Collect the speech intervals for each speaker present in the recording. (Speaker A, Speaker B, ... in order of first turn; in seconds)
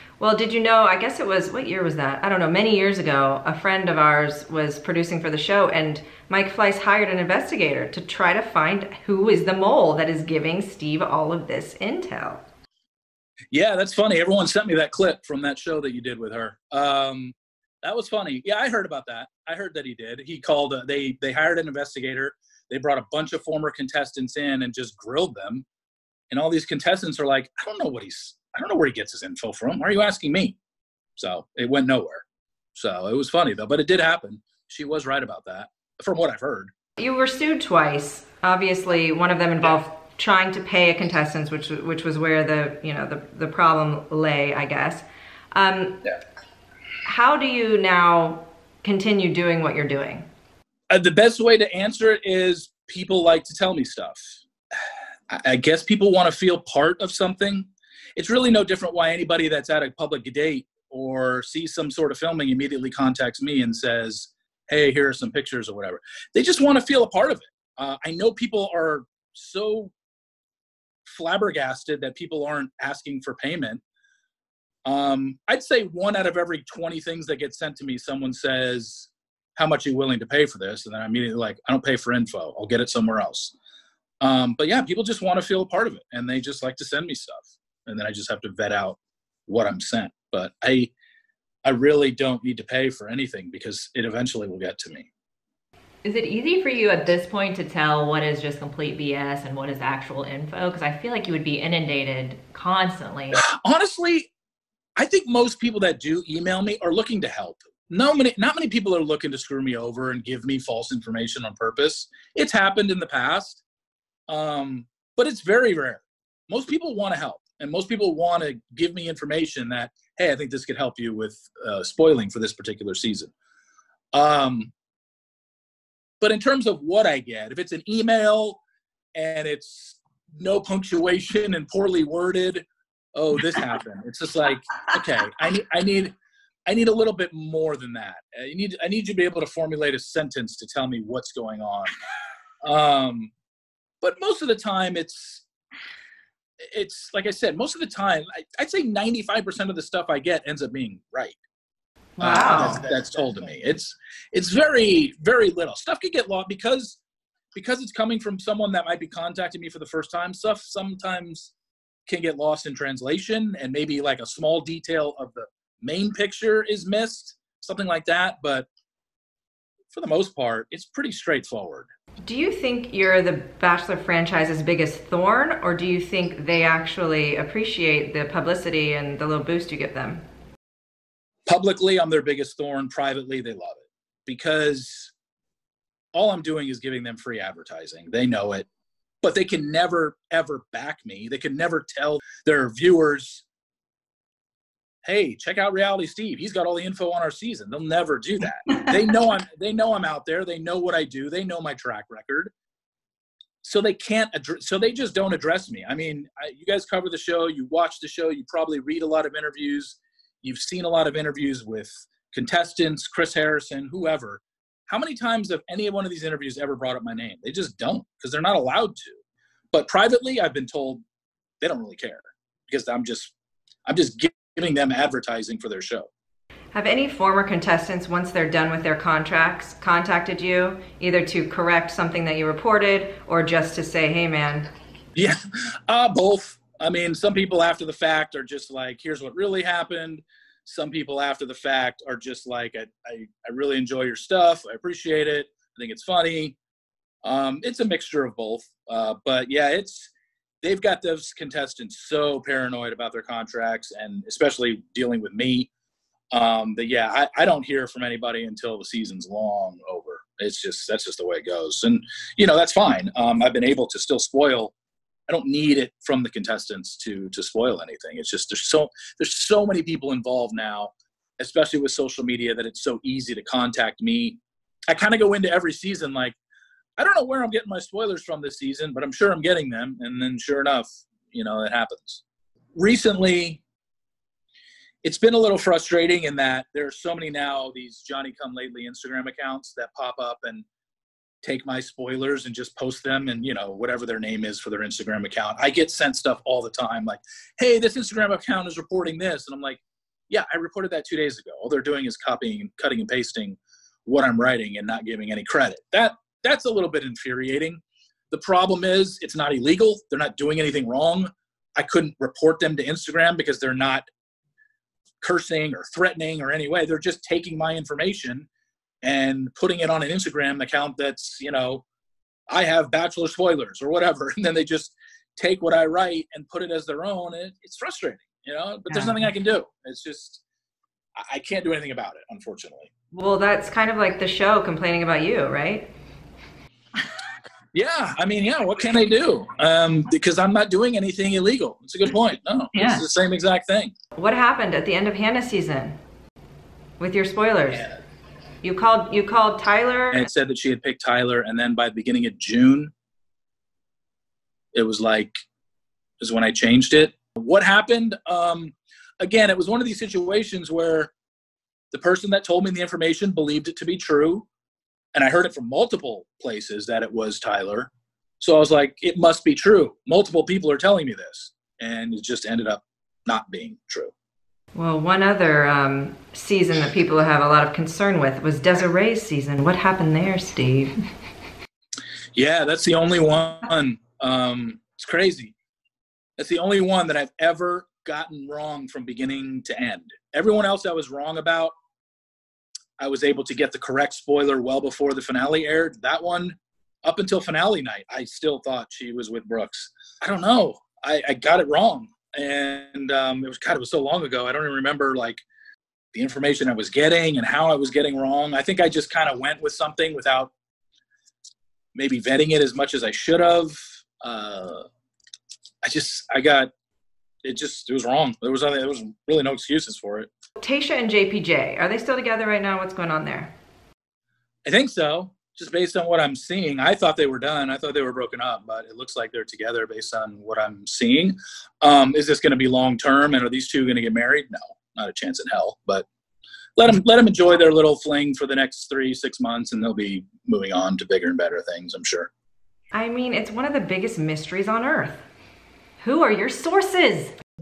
Speaker A: 0.2-12.4, 37.0-46.0, 47.0-50.2, 152.2-152.8, 172.2-180.2, 226.7-234.7, 328.9-329.2, 333.1-335.9, 342.7-343.0, 344.1-345.9, 347.0-347.9, 348.6-350.3, 374.7-380.9, 420.6-423.5, 442.9-445.2, 446.0-447.3
Speaker B: 13.5-25.6, 26.3-30.6, 31.2-32.2, 32.7-36.7, 50.9-54.4, 55.3-69.9, 71.0-73.8, 74.8-83.5, 84.2-90.9, 91.6-95.1, 103.3-104.3, 105.0-113.6, 114.3-123.3, 124.1-124.7, 126.2-128.6, 129.1-136.1, 136.7-141.9, 142.6-143.3, 144.0-145.4, 146.6-151.4, 152.2-157.0, 157.5-161.5, 162.1-168.7, 169.9-171.9, 181.5-185.1, 186.1-188.7, 189.2-193.4, 195.0-202.5, 203.6-219.2, 219.7-221.0, 221.6-223.3, 223.8-226.1, 235.2-246.6, 247.2-255.7, 256.3-264.7, 265.3-276.4, 277.0-282.2, 282.8-283.6, 285.0-290.6, 291.4-314.1, 315.2-318.5, 319.0-321.8, 322.5-330.4, 331.2-332.9, 337.7-343.9, 347.7-348.0, 350.1-352.9, 354.7-355.3, 356.2-361.1, 361.9-364.4, 365.1-374.1, 382.4-385.5, 386.4-391.7, 393.0-405.4, 406.1-410.5, 411.9-414.9, 415.8-416.7, 417.4-420.3, 424.6-436.1, 436.8-442.3
Speaker C: 96.0-103.4